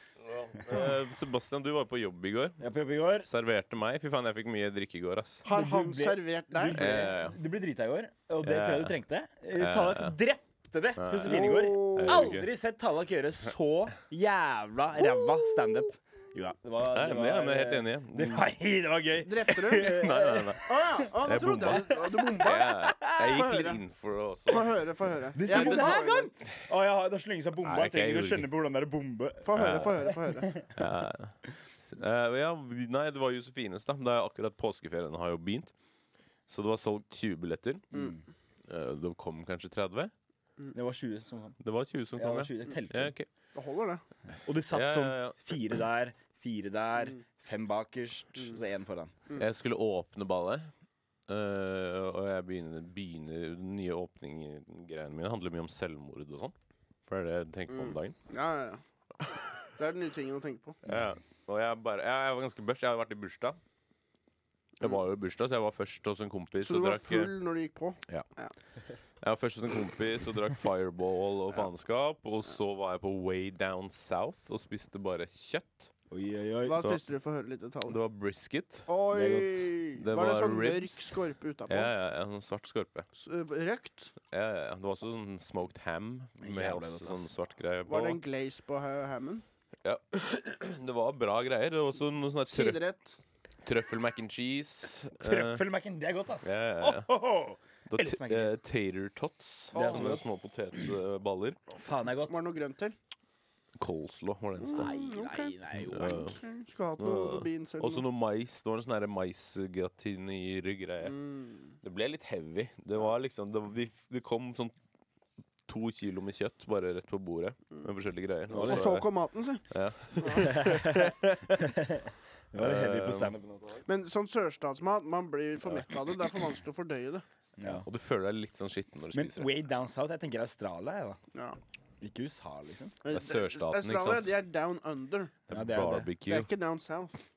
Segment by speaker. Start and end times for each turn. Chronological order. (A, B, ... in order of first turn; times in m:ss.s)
0:00.3-0:02.6 A
0:00.6-0:00.9 B
0:02.6-0:03.3 B
0:03.2-0:05.4 A
0:05.4-0:07.0 C
0:05.5-0:20.6 B
0:06.7-0:07.4 A
0:08.4-0:09.0 A
0:09.6-0:10.2 A
0:11.0-0:12.5 A
0:11.2-0:12.3 C
0:16.9-0:18.5 A
0:19.2-0:20.1 C
0:19.5-0:24.8 A
0:20.6-0:23.8 C
0:21.7-0:23.3 B
0:24.5-0:26.3 C
0:25.4-0:30.7 B
0:25.5-0:26.0 A
0:27.6-0:28.5 A
0:29.4-0:30.6 C
0:29.6-0:35.7 A
0:36.5-0:37.9 A
0:37.9-0:38.2 B
0:38.7-0:40.1 A
0:40.7-0:41.6 B
0:41.6-0:43.3 A
0:42.2-0:43.1 B
0:43.6-0:44.0 C
0:44.4-0:49.1 B
0:44.7-0:45.5 A
0:49.4-0:50.7 A
0:51.3-0:56.6 A
0:57.1-0:58.2 A
0:57.7-0:58.8 C
0:59.8-1:00.8 C
1:00.8-1:03.6 A
1:04.8-1:07.3 A
1:06.6-1:08.5 C
1:09.2-1:15.9 A
1:16.1-1:16.9 B
1:16.6-1:18.0 C
1:17.9-1:18.9 A
1:18.9-1:21.9 C
1:19.1-1:19.6 B
1:19.9-1:23.1 A
1:23.2-1:24.1 C
1:24.3-1:28.2 A
1:26.4-1:27.3 B
1:27.9-1:29.4 C
1:29.8-1:32.8 A
1:32.5-1:33.2 C
1:33.6-1:35.6 A
1:35.2-1:38.6 B
1:36.4-1:37.1 A
1:37.9-1:41.6 A
1:39.7-1:40.2 C
1:39.7-1:40.2 B
1:41.8-1:42.4 B
1:42.1-1:43.0 C
1:43.8-1:44.9 A
1:44.6-1:48.0 C
1:44.7-1:46.4 B
1:45.8-1:46.4 A
1:47.0-1:51.2 A
1:51.0-1:51.8 C
1:51.8-1:54.8 A
1:55.7-1:59.1 A
1:58.5-1:59.0 B
1:58.6-2:00.6 C
1:59.7-2:01.7 A
2:00.4-2:03.8 B
2:02.6-2:03.3 A
2:03.9-2:07.2 C
2:05.6-2:05.9 A
2:07.6-2:07.9 B
2:07.6-2:09.5 A
2:09.1-2:11.2 B
2:11.3-2:11.6 C
2:12.0-2:12.9 B
2:13.0-2:15.4 C
2:13.1-2:14.4 A
2:15.5-2:16.5 A
2:15.5-2:16.1 B
2:16.3-2:17.2 C